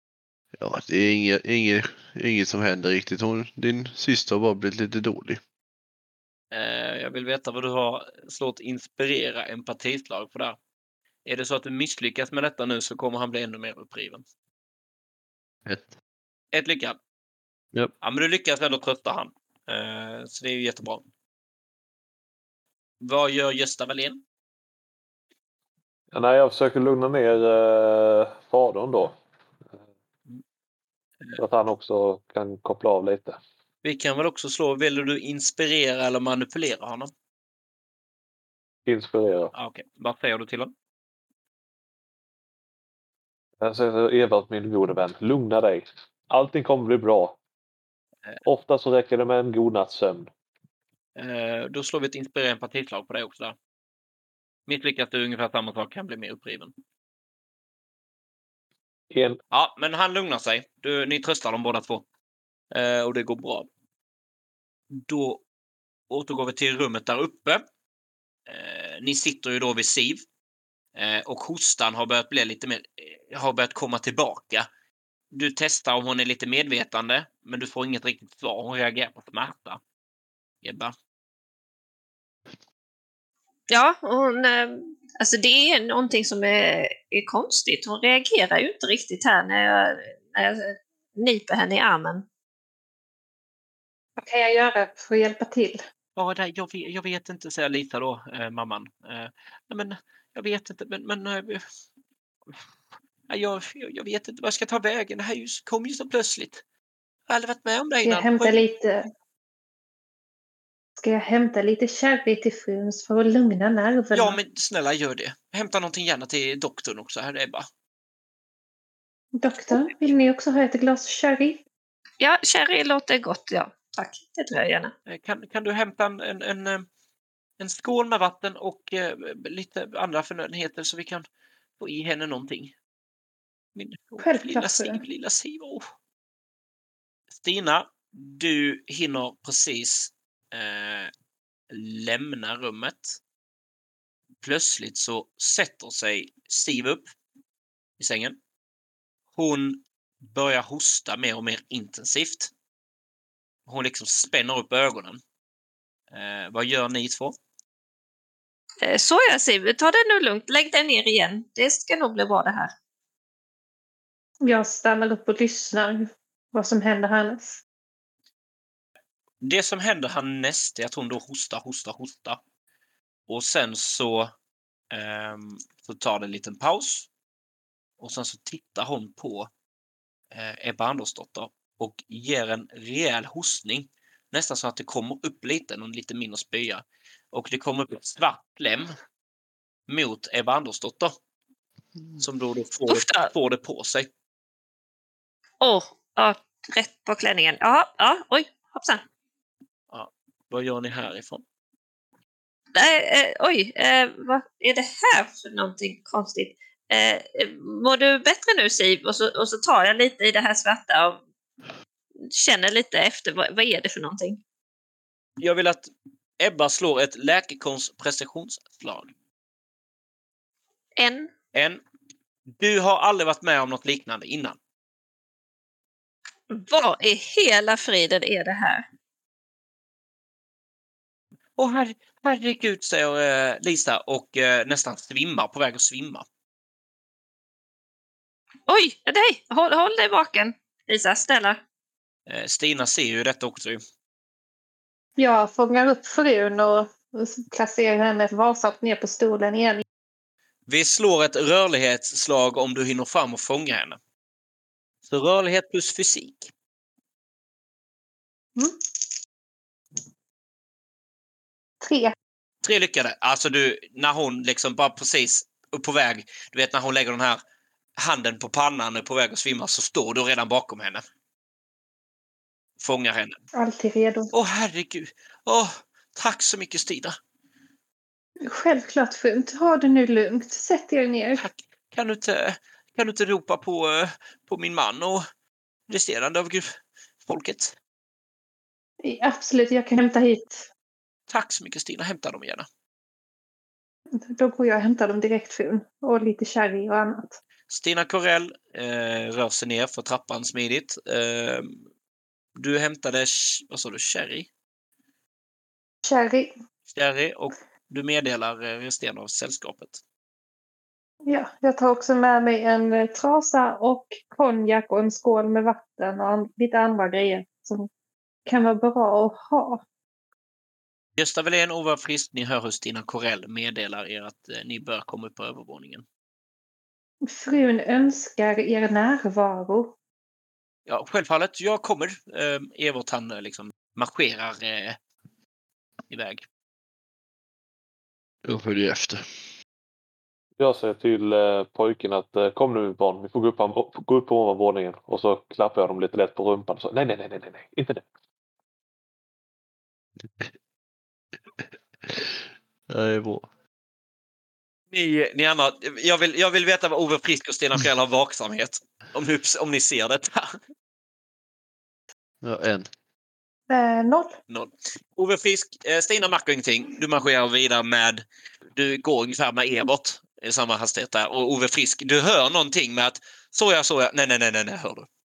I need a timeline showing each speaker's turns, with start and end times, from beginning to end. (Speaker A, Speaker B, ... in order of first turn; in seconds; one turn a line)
Speaker A: 0.6-5.4
Speaker B: 6.5-10.6
Speaker B: 11.2-14.2
Speaker A: 15.7-15.9
Speaker B: 16.5-17.0
Speaker B: 18.0-21.1
Speaker B: 23.0-24.2
Speaker C: 26.1-29.2
Speaker C: 31.4-33.4
Speaker B: 33.8-37.1
Speaker C: 38.9-39.5
Speaker B: 39.5-40.7
Speaker C: 43.6-47.4
Speaker C: 48.5-50.3
Speaker B: 51.2-53.6
Speaker B: 54.7-56.7
Speaker C: 59.1-59.4
Speaker B: 59.5-62.0
Speaker B: 62.7-63.7
Speaker B: 64.9-65.4
Speaker B: 66.1-67.6
Speaker B: 68.5-70.2
Speaker B: 71.0-74.7
Speaker B: 75.3-79.8
Speaker B: 80.6-80.9
Speaker D: 83.7-92.3
Speaker E: 94.2-95.8
Speaker B: 96.2-101.6
Speaker B: 103.3-106.6
Speaker B: 107.3-108.6
Speaker E: 108.0-109.0
Speaker E: 111.0-114.4
Speaker B: 114.1-117.7
Speaker E: 119.4-121.6
Speaker D: 122.2-124.9
Speaker B: 125.1-126.9
Speaker B: 127.6-131.2
Speaker B: 131.8-132.7
Speaker B: 133.8-135.8
Speaker E: 134.2-135.0
Speaker B: 137.3-141.1
Speaker B: 141.7-143.2
Speaker B: 144.4-147.1
Speaker B: 148.0-148.4
Speaker B: 149.4-152.5
Speaker B: 153.7-155.2
Speaker B: 156.1-157.3
Speaker D: 158.8-162.7
Speaker E: 164.4-167.6
Speaker B: 169.4-172.4
Speaker B: 173.3-174.3
Speaker B: 174.9-177.1
Speaker B: 178.0-179.5
Speaker B: 180.3-188.9
Speaker B: 189.9-191.2
Speaker B: 192.2-194.1
Speaker D: 192.9-193.3
Speaker D: 195.6-199.1
Speaker B: 199.9-201.4
Speaker D: 202.7-211.2
Speaker D: 212.2-214.4
Speaker B: 215.4-219.1
Speaker D: 221.0-221.3
Speaker B: 221.5-221.8
Speaker B: 222.5-224.6
Speaker D: 226.5-228.8
Speaker B: 231.6-236.2
Speaker D: 238.7-241.6
Speaker B: 242.3-243.8
Speaker E: 245.2-249.8
Speaker B: 250.7-254.0
Speaker B: 255.1-256.5
Speaker E: 261.8-262.1
Speaker B: 262.6-267.4
Speaker B: 268.0-271.0
Speaker B: 272.8-273.4
Speaker E: 273.6-274.3
Speaker B: 274.3-277.2
Speaker E: 278.4-281.4
Speaker B: 281.4-285.2
Speaker B: 285.9-287.8
Speaker E: 289.0-290.7
Speaker B: 291.3-292.7
Speaker E: 294.3-297.4
Speaker B: 297.7-301.8
Speaker B: 302.6-304.5
Speaker E: 306.1-306.5
Speaker B: 306.9-310.0
Speaker E: 311.3-317.9
Speaker E: 318.5-319.8
Speaker B: 321.2-326.1
Speaker E: 327.2-329.9
Speaker B: 330.9-335.0
Speaker B: 336.1-336.5
Speaker A: 338.4-339.3
Speaker C: 340.6-348.1
Speaker A: 352.1-353.5
Speaker B: 354.9-360.6
Speaker A: 362.4-362.9
Speaker E: 363.7-364.4
Speaker B: 364.5-368.2
Speaker B: 368.8-375.1